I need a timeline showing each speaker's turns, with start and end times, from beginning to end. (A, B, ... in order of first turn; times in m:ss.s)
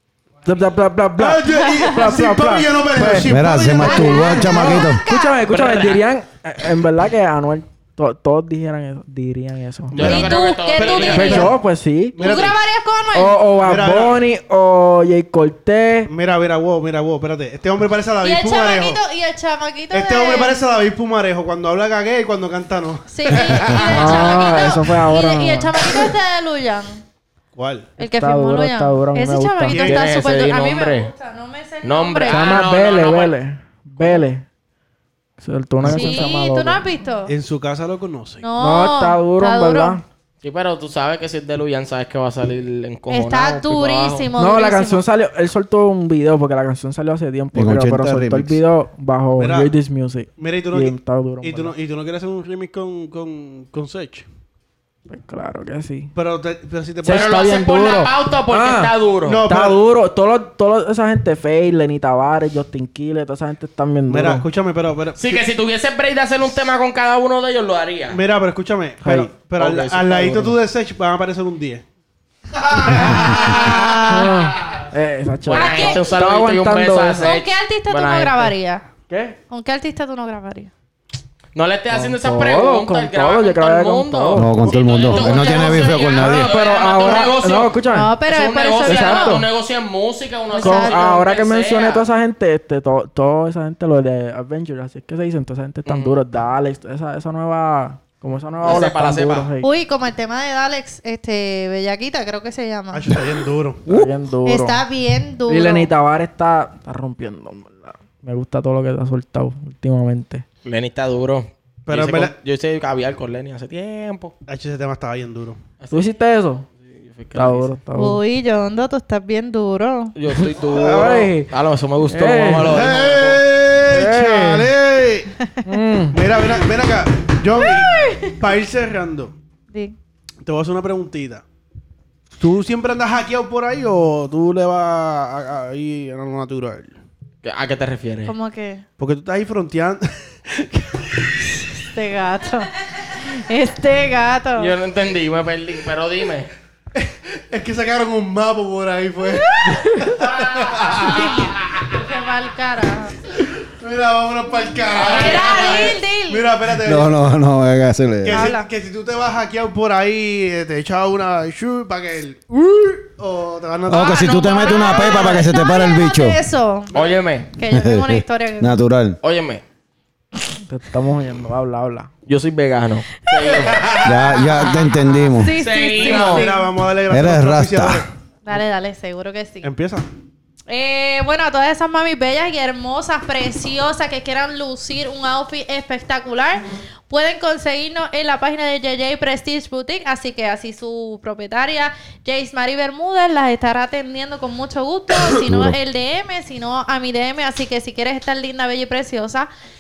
0:00.4-0:10.2 A
0:01.2-0:04.4 B
0:03.2-0:05.0 C
0:03.6-0:05.4 D
0:05.4-0:06.0 E
0:09.9-0:11.5 E
0:10.0-0:11.5 D
0:10.8-0:12.2 A
0:12.2-0:13.4 D
0:12.2-0:12.6 B
0:13.1-0:16.1 A
0:13.6-0:14.2 B
0:16.1-0:19.0 B
0:18.2-0:20.6 D
0:19.9-0:24.3 B
0:23.1-0:27.0 D
0:23.9-0:25.7 A
0:27.5-0:27.9 B
0:28.0-0:32.6 D
0:28.0-0:30.0 A
0:29.7-0:30.1 B
0:29.8-0:31.1 E
0:31.8-0:33.3 E
0:32.3-0:34.4 A
0:35.4-0:36.8 A
0:35.8-0:37.3 D
0:35.8-0:36.2 B
0:37.3-0:38.4 B
0:38.4-0:40.0 D
0:38.6-0:40.0 A
0:40.4-0:44.3 E
0:43.1-0:45.0 D
0:44.4-0:51.7 A
0:47.5-0:48.6 C
0:49.4-0:49.7 B
0:50.4-0:54.2 B
0:55.1-0:56.1 A
0:56.1-0:57.4 B
0:57.0-0:58.9 A
0:57.1-0:59.4 E
0:59.2-0:59.8 B
0:59.4-1:04.5 A
1:04.1-1:05.3 B
1:05.2-1:08.2 E
1:08.1-1:11.8 B
1:09.0-1:09.3 A
1:09.6-1:10.5 E
1:12.8-1:13.6 B
1:13.0-1:14.3 E
1:13.2-1:14.2 D
1:14.1-1:17.4 A
1:15.5-1:16.0 D
1:15.5-1:18.5 E
1:17.2-1:18.9 D
1:19.1-1:19.4 A
1:19.5-1:20.7 D
1:21.5-1:32.0 E
1:21.9-1:24.7 A
1:24.3-1:26.5 C
1:24.6-1:25.5 B
1:26.2-1:28.2 A
1:27.8-1:29.4 D
1:28.8-1:29.5 A
1:30.5-1:31.1 D
1:30.6-1:39.7 A
1:35.9-1:36.2 E
1:38.6-1:39.5 E
1:39.6-1:43.4 D
1:42.9-1:43.8 B
1:43.9-1:44.8 A
1:44.4-1:45.9 D
1:45.5-1:50.4 A
1:50.6-1:54.3 E
1:51.9-1:52.3 B
1:54.5-1:55.6 B
1:55.8-1:56.1 E
1:55.9-1:56.7 A
1:56.8-1:57.7 E
1:57.3-1:58.2 A
1:58.0-2:00.2 D
2:00.1-2:03.4 E
2:00.6-2:01.5 A
2:00.8-2:01.2 B
2:02.1-2:02.8 A
2:02.6-2:05.3 B
2:03.9-2:04.7 A
2:05.6-2:06.2 A
2:06.1-2:09.3 B
2:07.6-2:08.4 D
2:10.4-2:11.4 B
2:12.4-2:16.9 B
2:17.4-2:18.3 E
2:18.3-2:18.8 D
2:19.0-2:21.3 B
2:21.5-2:24.7 D
2:24.6-2:26.5 E
2:27.0-2:31.3 B
2:29.3-2:30.1 D
2:30.2-2:31.1 E
2:31.0-2:33.2 D
2:33.6-2:37.1 B
2:34.9-2:36.0 E
2:35.0-2:36.5 D
2:36.8-2:38.6 C
2:38.2-2:45.1 B
2:38.3-2:38.7 D
2:43.9-2:46.4 C
2:44.0-2:45.4 E
2:44.8-2:46.9 D
2:46.9-2:47.5 E
2:47.5-2:48.8 D
2:47.7-2:49.2 C
2:49.2-2:49.6 E
2:50.7-2:52.1 A
2:52.3-2:54.9 E
2:53.2-2:54.0 D
2:53.5-2:54.1 B
2:54.0-2:55.6 C
2:55.3-2:56.7 D
2:55.6-2:56.5 E
2:55.9-2:58.1 B
2:57.1-2:58.0 C
2:58.4-2:59.7 D
2:59.6-3:00.0 B
3:00.7-3:19.5 D
3:15.4-3:15.8 C